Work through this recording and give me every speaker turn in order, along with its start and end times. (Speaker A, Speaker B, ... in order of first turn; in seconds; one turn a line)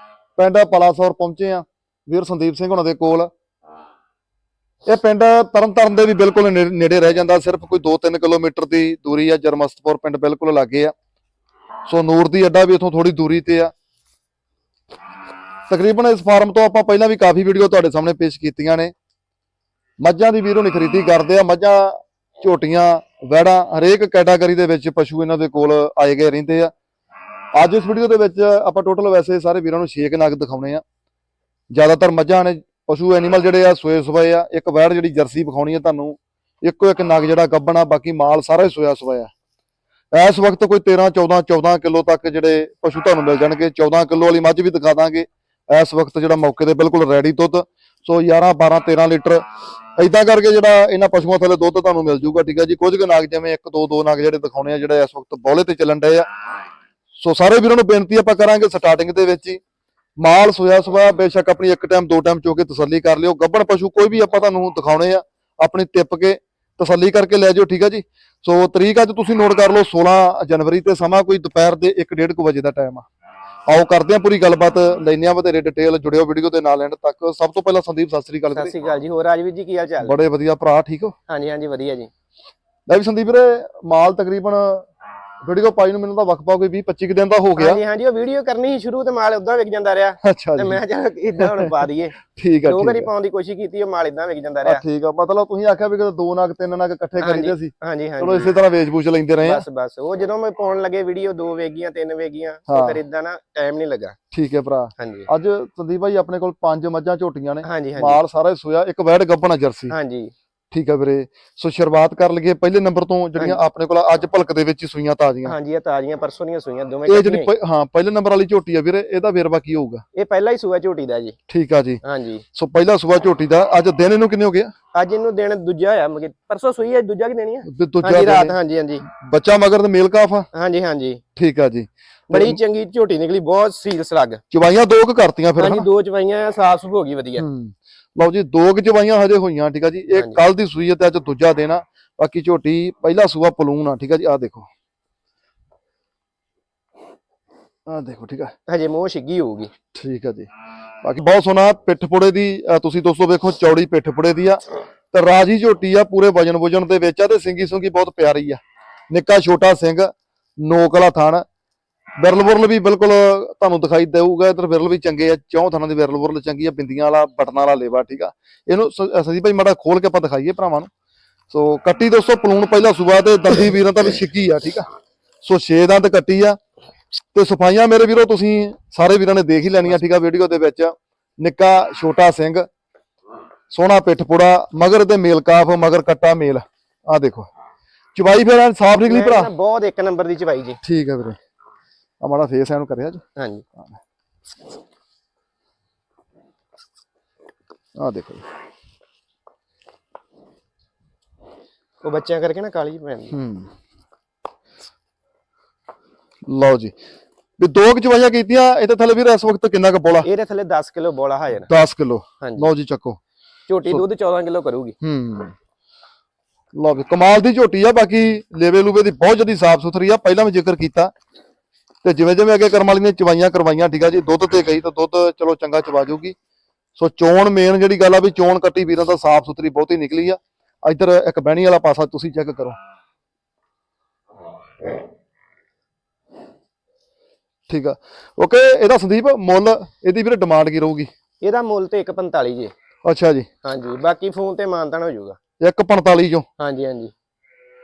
Speaker A: 0.3-3.3
Speaker A: 4.8-10.9
Speaker A: 11.9-13.7
Speaker A: 15.7-18.9
Speaker A: 20.0-26.7
Speaker A: 27.5-30.8
Speaker A: 31.7-39.3
Speaker A: 40.1-49.4
Speaker A: 50.0-56.3
Speaker A: 57.2-59.6
Speaker A: 60.2-73.0
Speaker A: 73.7-78.7
Speaker B: 78.5-80.2
Speaker A: 80.0-81.1
Speaker B: 81.3-82.1
Speaker A: 82.9-84.9
Speaker A: 85.4-87.8
Speaker B: 87.6-92.2
Speaker A: 90.2-90.8
Speaker A: 91.4-91.7
Speaker A: 92.3-93.1
Speaker B: 92.7-94.8
Speaker A: 94.6-99.6
Speaker B: 97.2-98.5
Speaker B: 99.4-104.2
Speaker A: 102.7-103.0
Speaker A: 104.3-109.9
Speaker B: 105.0-105.3
Speaker B: 107.6-108.2
Speaker B: 109.9-110.3
Speaker A: 110.7-115.5
Speaker B: 115.4-117.5
Speaker A: 117.0-120.0
Speaker B: 120.1-121.3
Speaker A: 121.5-122.0
Speaker B: 122.0-122.4
Speaker A: 122.5-124.7
Speaker B: 124.9-129.0
Speaker A: 127.7-130.5
Speaker B: 130.5-131.2
Speaker A: 131.3-132.6
Speaker B: 132.3-134.4
Speaker A: 134.5-135.9
Speaker B: 135.6-137.4
Speaker A: 137.3-144.7
Speaker B: 140.1-140.4
Speaker A: 147.9-148.5
Speaker B: 148.7-149.7
Speaker A: 149.9-150.5
Speaker A: 151.0-154.6
Speaker A: 155.1-158.6
Speaker A: 159.1-161.4
Speaker A: 162.2-170.9
Speaker A: 171.5-174.8
Speaker A: 175.4-176.6
Speaker A: 177.3-182.7
Speaker A: 183.7-187.5
Speaker A: 188.1-189.5
Speaker B: 189.1-190.8
Speaker A: 190.8-191.4
Speaker A: 192.2-193.2
Speaker B: 193.4-193.6
Speaker A: 198.0-198.4
Speaker B: 202.0-203.3
Speaker A: 203.3-203.7
Speaker A: 206.4-206.9
Speaker A: 207.6-210.3
Speaker B: 210.2-211.7
Speaker A: 211.5-213.2
Speaker B: 212.4-212.7
Speaker B: 213.7-215.0
Speaker A: 215.0-215.5
Speaker A: 216.7-221.1
Speaker A: 222.0-226.3
Speaker A: 226.9-232.8
Speaker A: 237.7-241.1
Speaker B: 241.4-242.7
Speaker A: 243.0-243.5
Speaker B: 243.6-245.4
Speaker A: 245.6-246.5
Speaker B: 246.6-247.1